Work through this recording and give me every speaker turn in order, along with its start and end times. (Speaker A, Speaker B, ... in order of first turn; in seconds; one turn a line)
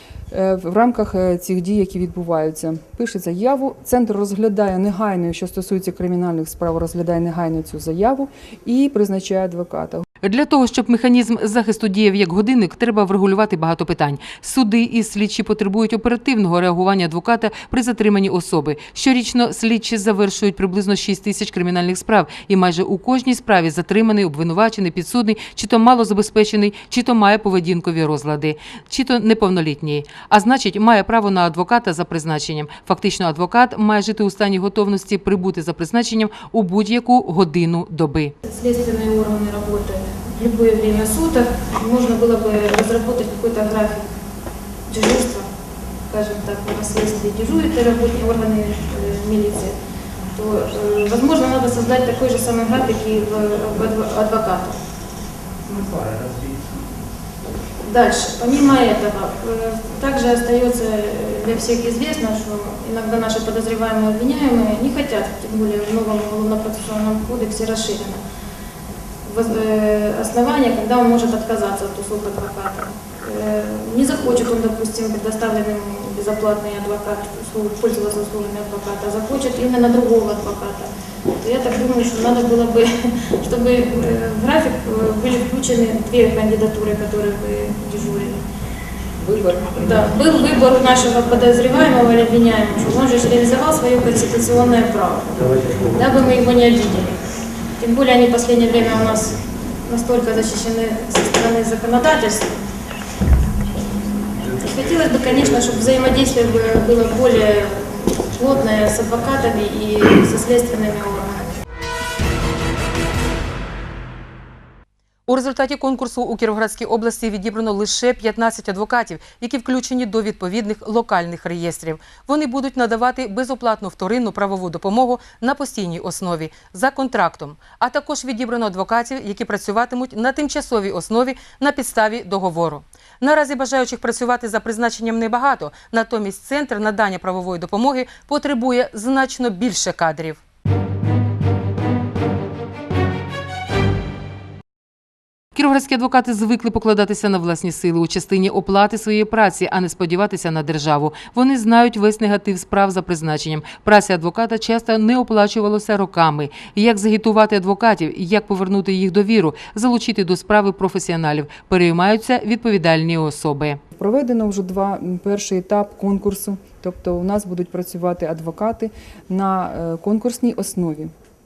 Speaker A: 0.3-10.0
Speaker B: 10.2-38.3
Speaker C: 38.4-44.1
Speaker C: 44.9-45.5
Speaker C: 46.1-49.8
Speaker C: 50.3-54.8
Speaker C: 57.8-68.2
Speaker C: 69.2-88.4
Speaker A: 89.2-90.1
Speaker C: 89.8-97.2
Speaker C: 97.8-102.5
Speaker C: 104.4-111.6
Speaker B: 115.3-140.4
Speaker B: 145.6-163.8
Speaker A: 163.9-171.1